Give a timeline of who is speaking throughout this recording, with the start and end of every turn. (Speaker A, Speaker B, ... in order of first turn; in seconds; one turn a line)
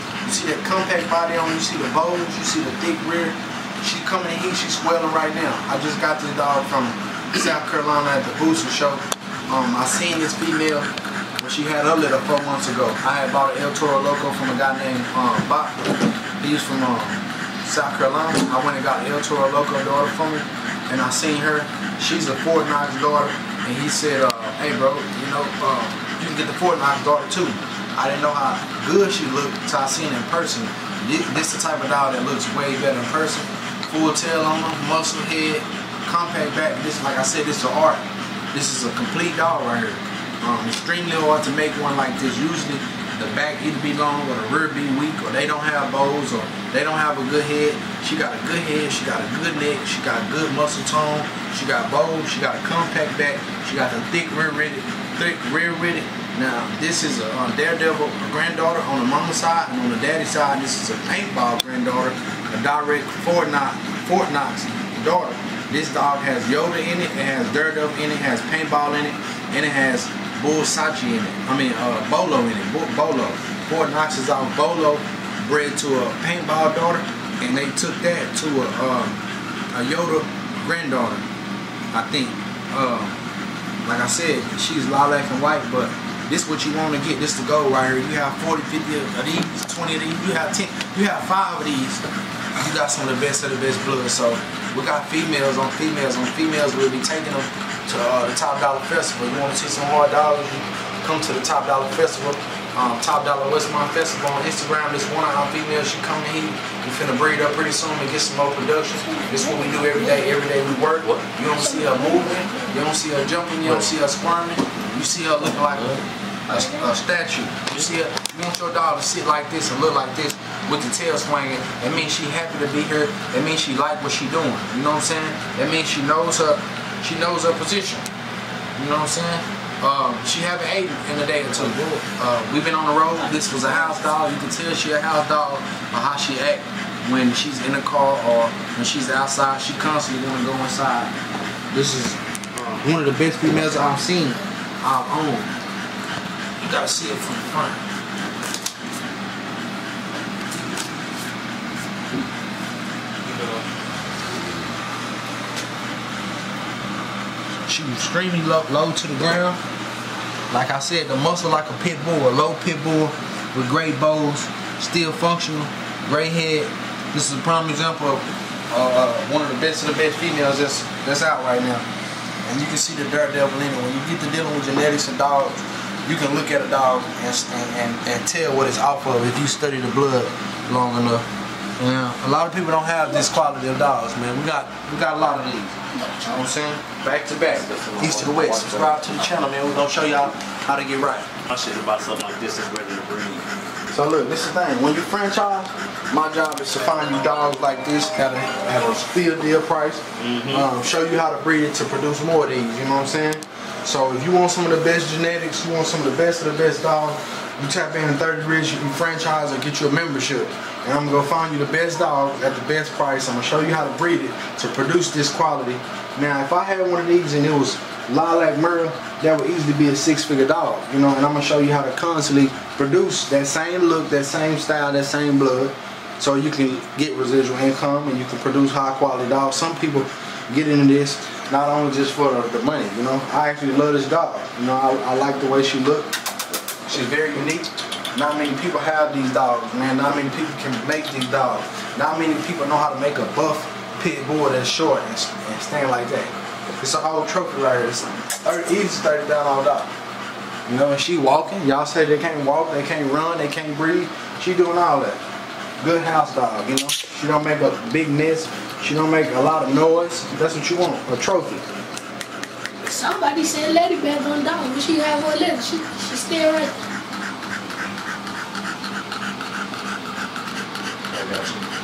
Speaker A: 0.2-79.2
Speaker A: 79.7-81.3
Speaker A: 81.9-83.2
Speaker A: 83.8-115.9
Speaker B: 109.1-110.3
Speaker C: 111.0-111.2
Speaker B: 111.5-112.7
Speaker C: 113.6-113.9
Speaker C: 115.7-116.0
Speaker A: 116.5-128.1
Speaker B: 116.5-116.9
Speaker A: 128.8-141.1
Speaker B: 133.3-134.0
Speaker A: 141.7-145.5
Speaker A: 146.6-147.8
Speaker C: 153.2-153.6
Speaker A: 157.7-159.6
Speaker A: 160.5-171.8
Speaker A: 172.4-181.3
Speaker A: 181.8-191.3
Speaker C: 187.5-189.0
Speaker C: 191.5-193.5
Speaker A: 193.9-236.1
Speaker C: 200.2-200.7
Speaker A: 236.9-249.9
Speaker A: 250.7-255.2
Speaker A: 255.8-261.6
Speaker B: 262.8-266.7
Speaker A: 271.1-271.6
Speaker C: 271.2-271.4